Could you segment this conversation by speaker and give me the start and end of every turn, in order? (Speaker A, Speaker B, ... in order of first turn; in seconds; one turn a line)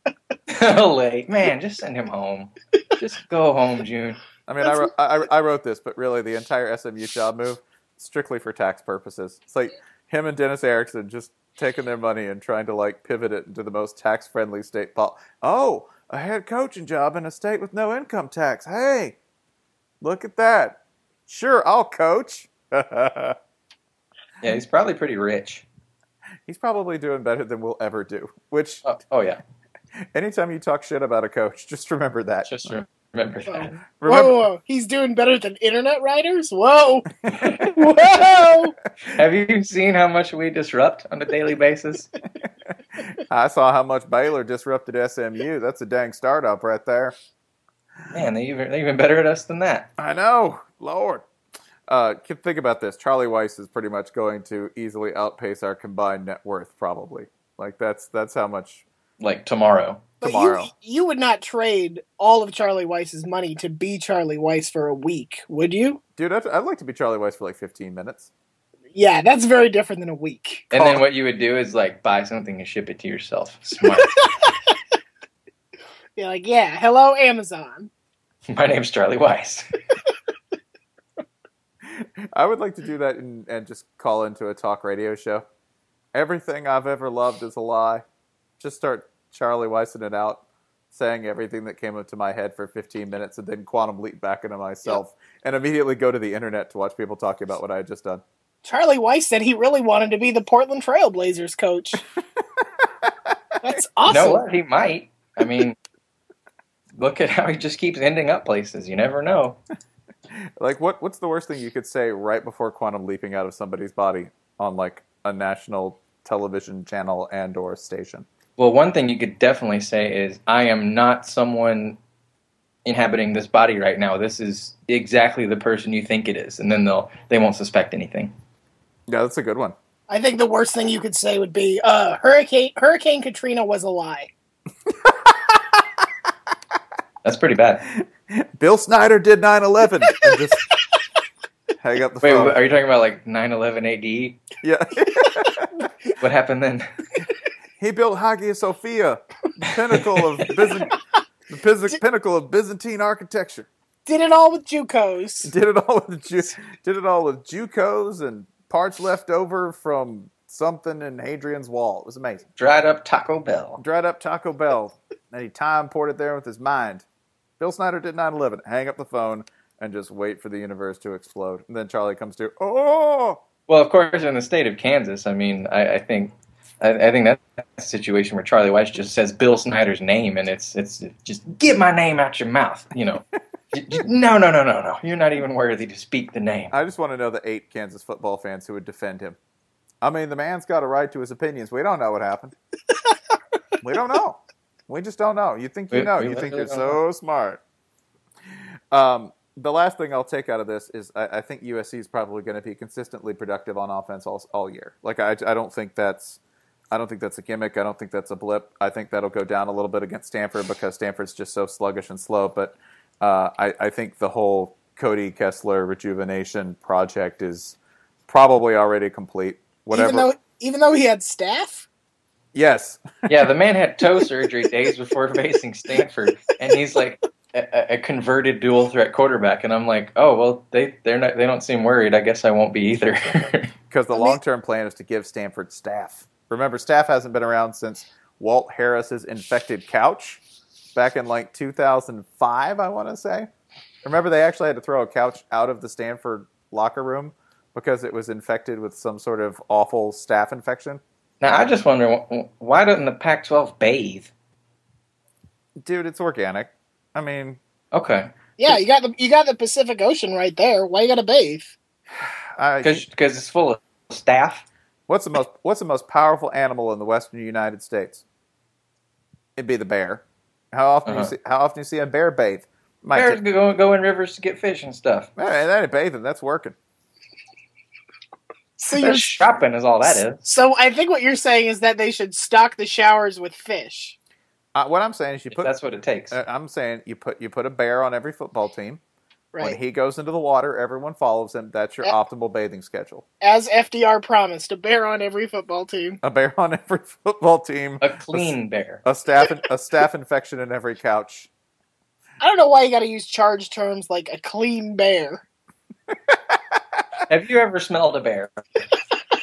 Speaker A: 0.5-4.2
Speaker B: 4.5-19.2
Speaker B: 20.0-23.4
Speaker A: 24.4-25.7
Speaker B: 26.5-28.8
Speaker A: 28.9-29.4
Speaker B: 30.1-32.7
Speaker A: 32.5-33.8
Speaker C: 33.5-37.1
Speaker B: 34.0-34.4
Speaker B: 37.2-37.5
Speaker A: 37.4-38.3
Speaker C: 37.7-38.7
Speaker A: 39.1-42.1
Speaker B: 42.4-47.1
Speaker A: 48.1-49.9
Speaker B: 50.0-51.2
Speaker B: 51.9-58.9
Speaker A: 59.2-60.1
Speaker C: 60.2-66.0
Speaker B: 60.2-60.7
Speaker B: 66.2-68.3
Speaker C: 68.9-71.0
Speaker A: 70.7-74.2
Speaker C: 76.2-77.9
Speaker A: 78.5-79.7
Speaker B: 81.8-85.5
Speaker B: 86.1-88.0
Speaker B: 88.6-98.2
Speaker C: 98.6-102.0
Speaker B: 102.4-103.8
Speaker C: 103.6-104.4
Speaker A: 104.1-105.8
Speaker A: 107.0-109.6
Speaker B: 110.3-118.3
Speaker A: 118.6-122.0
Speaker A: 122.8-128.3
Speaker B: 129.1-129.8
Speaker C: 130.1-134.3
Speaker B: 134.9-135.8
Speaker A: 137.2-137.8
Speaker B: 137.9-140.6
Speaker B: 141.8-142.6
Speaker A: 142.2-144.4
Speaker B: 144.6-145.9
Speaker A: 146.2-146.9
Speaker B: 147.8-151.0
Speaker B: 151.5-153.7
Speaker C: 154.1-155.5
Speaker B: 155.4-162.4
Speaker A: 162.6-163.8
Speaker B: 163.8-167.0
Speaker B: 167.6-173.4
Speaker A: 173.7-186.7
Speaker B: 186.7-189.4
Speaker B: 190.0-192.6
Speaker B: 193.8-197.6
Speaker A: 195.9-197.0
Speaker B: 198.9-206.4
Speaker B: 206.9-217.8
Speaker B: 218.3-220.3
Speaker C: 219.9-221.9
Speaker B: 222.5-223.5
Speaker A: 223.3-233.7
Speaker B: 233.9-240.4
Speaker B: 240.9-243.5
Speaker B: 244.0-251.0
Speaker A: 251.4-254.3
Speaker B: 255.8-257.6
Speaker A: 257.9-258.3
Speaker C: 258.6-261.7
Speaker B: 262.1-263.1
Speaker A: 262.8-264.6
Speaker B: 265.1-268.2
Speaker B: 269.6-273.4
Speaker A: 271.1-271.3
Speaker A: 273.1-275.3
Speaker B: 275.4-276.8
Speaker C: 278.8-279.4
Speaker A: 278.9-280.4
Speaker C: 280.0-284.2
Speaker B: 284.8-285.7
Speaker A: 285.5-286.4
Speaker B: 286.3-289.0
Speaker B: 289.6-293.2
Speaker C: 293.4-296.2
Speaker B: 296.2-301.5
Speaker A: 298.0-299.0
Speaker C: 302.4-305.4
Speaker B: 306.1-307.2
Speaker A: 307.3-308.9